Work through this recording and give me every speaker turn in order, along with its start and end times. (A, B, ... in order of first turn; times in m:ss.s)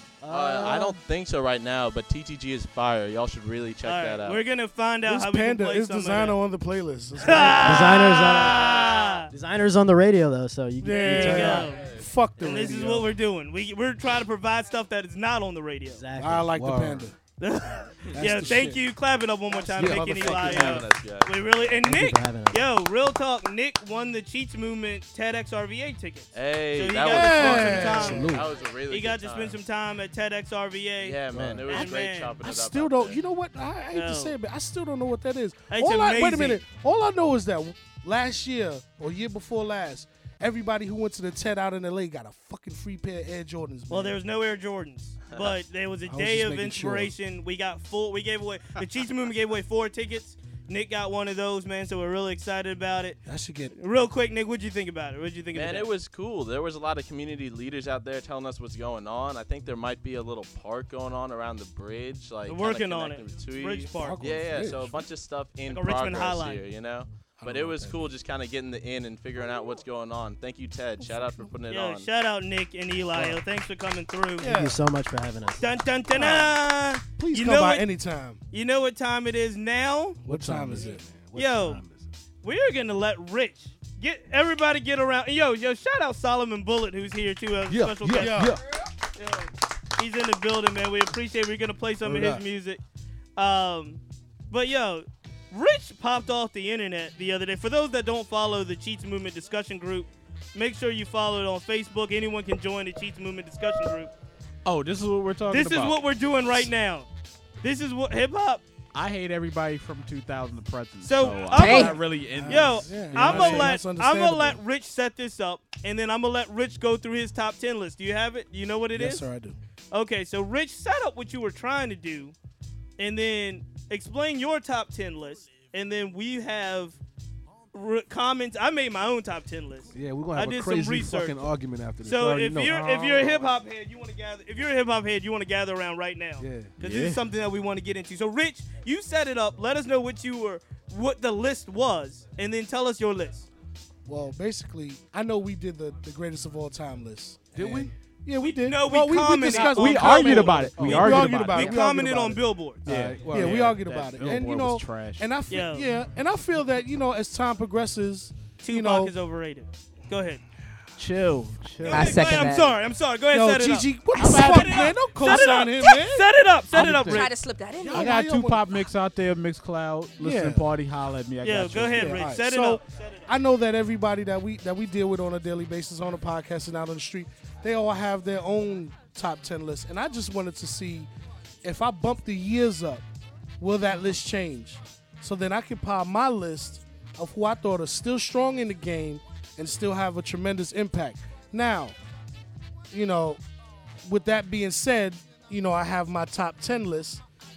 0:00.2-0:01.0 A
0:00.3-0:04.4 B
0:03.8-0:06.4 C
0:05.0-0:08.0 D
0:07.2-0:09.3 C
0:07.3-0:11.8 A
0:10.8-0:13.1 D
0:10.9-0:16.0 C
0:15.9-0:16.5 A
0:16.2-0:17.2 D
0:16.5-0:17.1 E
0:17.4-0:28.4 C
0:18.1-0:18.8 D
0:19.7-0:20.8 E
0:19.8-0:21.3 B
0:21.7-0:22.6 A
0:26.3-0:29.6 B
0:27.0-0:28.4 D
0:27.8-0:28.5 E
0:28.9-0:32.3 C
0:31.0-0:33.2 B
0:31.3-0:31.7 E
0:31.7-0:44.2 D
0:33.9-0:34.3 C
0:35.7-0:36.6 C
0:43.9-0:53.2 C
0:46.1-0:47.1 D
0:53.2-0:53.7 D
0:53.7-0:55.9 C
0:55.5-1:12.1 B
1:02.5-1:04.2 C
1:04.0-1:05.0 D
1:05.7-1:06.6 C
1:07.4-1:08.1 D
1:11.0-1:11.5 D
1:11.7-1:14.5 C
1:14.4-1:14.8 D
1:14.4-1:15.7 A
1:15.6-1:17.8 C
1:16.1-1:16.6 D
1:17.2-1:18.4 D
1:18.5-1:20.2 C
1:20.2-1:21.0 D
1:20.2-1:22.1 E
1:21.3-1:21.8 C
1:22.4-1:28.5 C
1:27.7-1:28.6 E
1:28.1-1:28.6 D
1:29.2-1:32.8 C
1:32.0-1:32.4 E
1:33.4-1:44.1 C
1:44.6-1:46.0 F
1:45.5-1:47.1 C
1:47.6-1:48.6 C
1:48.9-1:53.7 F
1:51.0-1:59.2 C
1:51.5-1:52.0 G
1:52.3-1:54.6 D
1:58.9-1:59.6 D
1:59.9-2:02.3 C
2:03.0-2:07.0 C
2:07.7-2:11.4 C
2:09.9-2:13.3 E
2:12.0-2:23.5 C
2:16.4-2:17.2 E
2:24.0-2:39.1 D
2:27.5-2:27.9 E
2:28.4-2:32.8 C
2:29.5-2:31.7 F
2:30.6-2:31.1 E
2:32.8-2:34.6 E
2:32.8-2:35.3 F
2:35.5-2:35.9 C
2:38.6-2:40.4 C
2:41.0-2:42.5 F
2:41.8-2:47.3 C
2:41.8-2:42.8 G
2:43.3-2:46.2 D
2:44.2-2:46.1 G
2:44.2-2:44.7 F
2:46.7-2:47.2 E
2:47.0-2:48.2 G
2:47.8-2:48.7 D
2:47.9-2:52.2 F
2:50.2-2:50.6 D
2:51.4-2:53.2 C
2:52.0-3:01.1 D
3:01.6-3:03.0 D
3:03.6-3:11.9 D
3:12.9-3:13.4 D
3:14.0-3:17.2 D